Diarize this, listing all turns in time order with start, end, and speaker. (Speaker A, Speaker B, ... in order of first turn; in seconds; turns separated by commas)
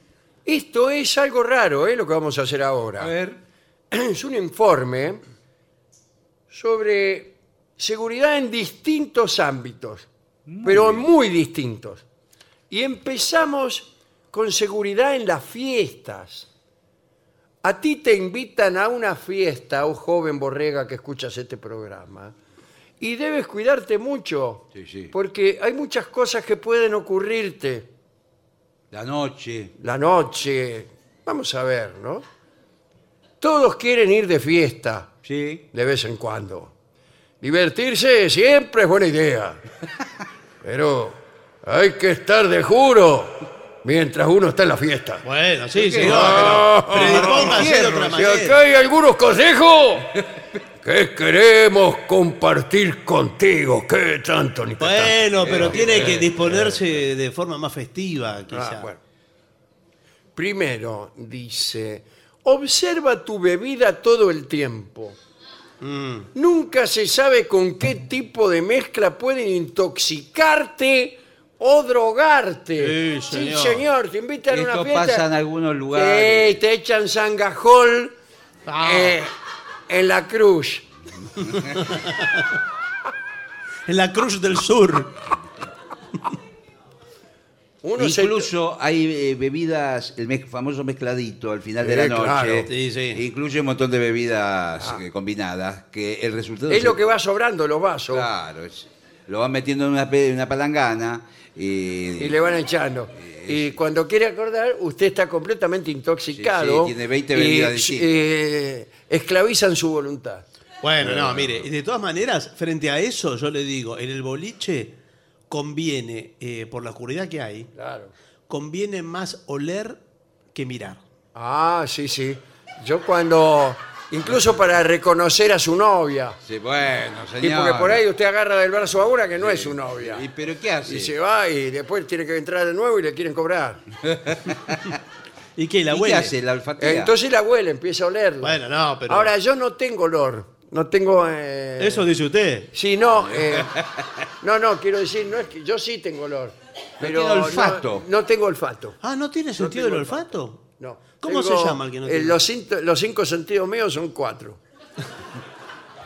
Speaker A: 0.5-3.1, Speaker B: 3.0-3.4, Speaker A: 3.9-5.2, Speaker A: 6.5-10.1, Speaker B: 10.5-11.1, Speaker A: 10.6-12.0, Speaker A: 12.7-16.5, Speaker A: 17.6-22.3, Speaker A: 23.0-27.9, Speaker B: 24.7-25.1, Speaker B: 28.9-29.7, Speaker A: 29.8-32.2, Speaker A: 33.4-35.1, Speaker B: 35.2-35.6, Speaker A: 35.7-36.7, Speaker A: 37.4-39.6, Speaker A: 40.6-45.2, Speaker C: 45.2-48.6, Speaker B: 45.8-48.2, Speaker A: 46.0-50.2, Speaker A: 50.8-56.8, Speaker C: 54.8-58.9, Speaker B: 55.4-56.2, Speaker A: 58.5-59.0, Speaker A: 60.4-65.2, Speaker C: 65.8-66.3, Speaker A: 66.3-75.2, Speaker C: 72.8-73.8, Speaker B: 74.5-76.6, Speaker A: 75.9-78.1, Speaker C: 78.7-79.2, Speaker A: 78.8-79.3, Speaker A: 79.9-80.8, Speaker C: 83.9-85.1, Speaker A: 87.8-88.5, Speaker B: 88.0-97.0, Speaker A: 91.8-92.7, Speaker C: 92.7-93.2, Speaker A: 96.7-98.3, Speaker B: 98.1-102.4, Speaker A: 102.2-110.5, Speaker B: 103.2-103.7, Speaker B: 106.3-108.2, Speaker C: 110.8-114.9, Speaker B: 111.0-111.6, Speaker C: 115.5-117.7, Speaker A: 117.7-118.1, Speaker C: 118.5-120.0, Speaker C: 120.5-121.0, Speaker A: 121.3-126.4, Speaker B: 126.4-128.0, Speaker A: 127.4-130.2, Speaker B: 129.4-131.1, Speaker A: 130.8-133.8, Speaker B: 134.0-134.9, Speaker C: 135.6-136.3, Speaker B: 135.9-137.1, Speaker A: 136.8-142.1, Speaker C: 138.4-139.3, Speaker C: 141.8-142.7, Speaker A: 142.7-143.8, Speaker B: 143.4-143.8, Speaker A: 144.4-149.0, Speaker B: 147.0-148.0, Speaker C: 149.0-150.6, Speaker A: 149.6-154.6, Speaker C: 151.2-152.3